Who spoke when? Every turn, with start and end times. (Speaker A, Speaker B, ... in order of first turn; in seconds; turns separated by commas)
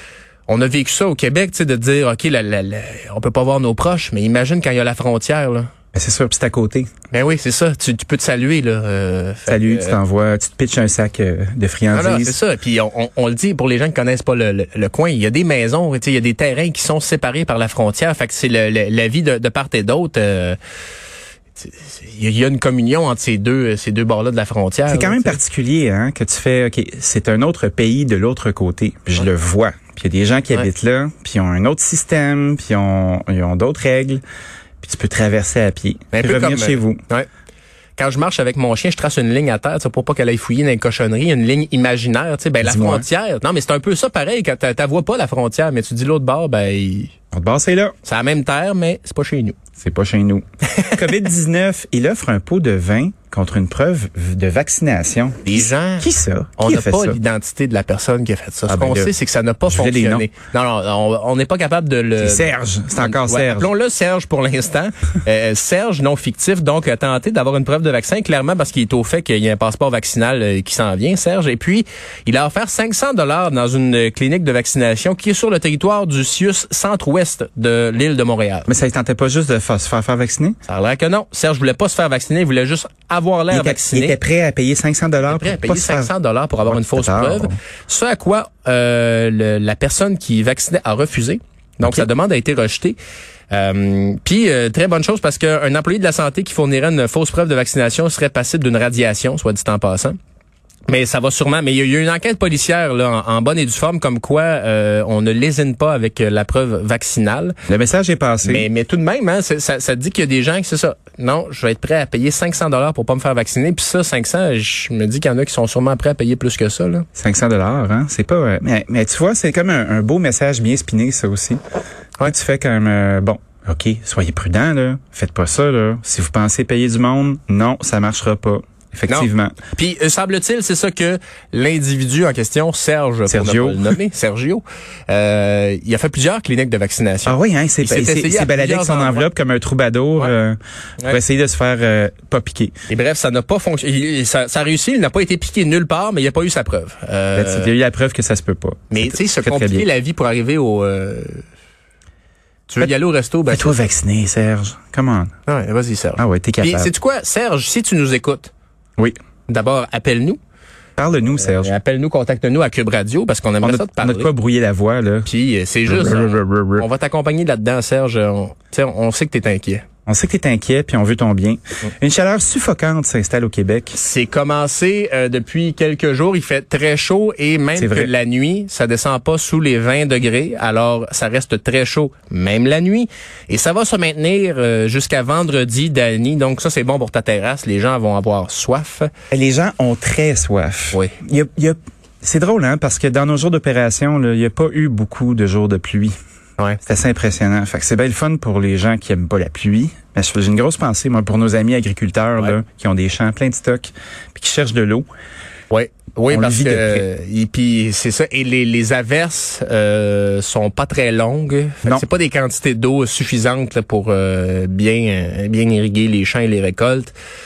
Speaker A: 0.5-5.7, Speaker B: 5.9-6.9, Speaker A: 7.1-10.0, Speaker B: 9.5-12.3, Speaker A: 11.9-20.6, Speaker A: 21.6-25.4, Speaker B: 24.9-34.2, Speaker B: 34.8-37.0, Speaker A: 36.1-37.3, Speaker A: 38.0-47.1, Speaker B: 42.6-43.0, Speaker B: 47.3-47.9, Speaker A: 48.0-49.5, Speaker B: 49.8-57.2, Speaker A: 50.7-51.1, Speaker A: 55.4-78.7, Speaker B: 58.7-59.1, Speaker B: 59.7-60.3, Speaker B: 62.2-63.7, Speaker B: 78.7-80.5, Speaker A: 80.7-84.2, Speaker B: 83.5-86.1, Speaker A: 85.3-93.0, Speaker B: 86.7-87.6, Speaker B: 91.8-92.1, Speaker A: 93.5-100.1, Speaker A: 100.9-107.5, Speaker B: 107.7-108.7, Speaker A: 108.4-117.0, Speaker B: 117.2-121.6, Speaker B: 122.2-129.6, Speaker A: 129.1-139.3, Speaker B: 133.3-134.0, Speaker B: 137.2-142.7, Speaker A: 142.9-147.7, Speaker B: 147.3-149.8, Speaker A: 148.9-151.4, Speaker A: 152.7-153.8, Speaker B: 153.5-155.3, Speaker A: 155.5-158.5, Speaker B: 156.2-156.9, Speaker A: 159.5-160.4, Speaker B: 161.0-161.7, Speaker A: 161.3-164.3, Speaker B: 163.6-165.3, Speaker A: 165.2-169.8, Speaker B: 165.9-166.9, Speaker B: 170.1-174.0, Speaker A: 173.9-189.1, Speaker B: 177.7-178.1, Speaker B: 189.3-196.1, Speaker B: 196.8-205.1, Speaker A: 205.7-217.1, Speaker B: 206.3-207.1